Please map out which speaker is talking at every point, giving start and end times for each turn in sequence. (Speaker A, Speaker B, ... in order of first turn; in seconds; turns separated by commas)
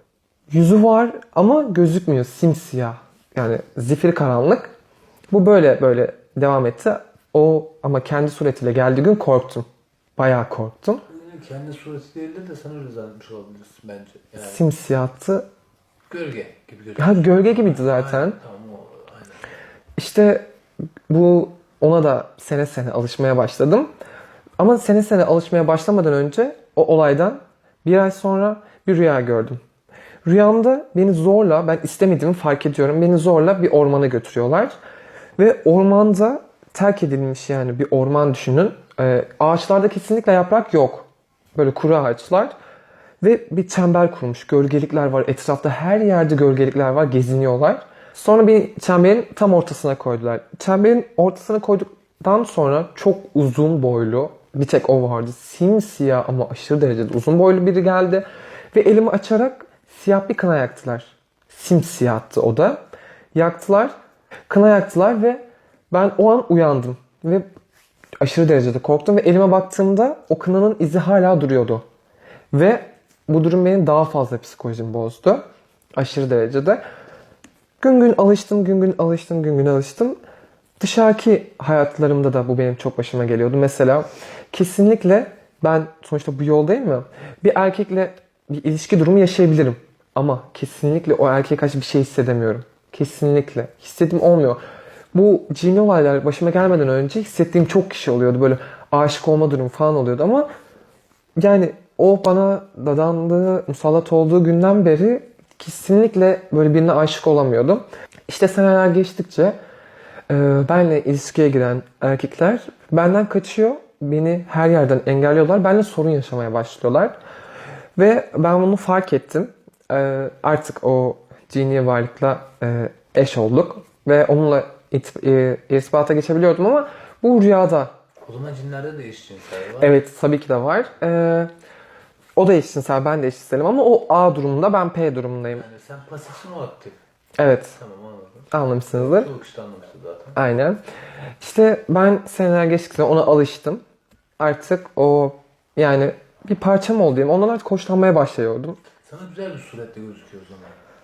Speaker A: 0.5-4.7, Speaker A: 5.3-9.7, Speaker A: 10.2-11.0, Speaker B: 11.1-14.6, Speaker A: 14.4-15.5, Speaker B: 16.1-19.4, Speaker A: 17.0-18.4, Speaker A: 20.0-20.4, Speaker A: 21.1-23.9, Speaker A: 24.6-29.6, Speaker A: 30.2-34.7, Speaker A: 35.4-42.5, Speaker A: 43.2-62.8, Speaker A: 63.3-63.9, Speaker A: 64.5-67.5, Speaker A: 68.2-71.8, Speaker A: 72.5-75.4, Speaker A: 76.0-76.8, Speaker A: 77.8-80.2, Speaker A: 80.8-94.6, Speaker A: 95.1-100.5, Speaker A: 101.4-109.5, Speaker A: 110.3-117.2, Speaker A: 118.0-127.9, Speaker B: 128.2-130.0, Speaker A: 129.8-131.5, Speaker A: 132.4-135.6, Speaker B: 135.5-137.0, Speaker A: 137.4-137.7, Speaker B: 137.7-140.4, Speaker A: 138.5-139.3, Speaker A: 140.3-140.8, Speaker A: 141.4-143.8, Speaker A: 144.4-148.8, Speaker B: 149.0-150.8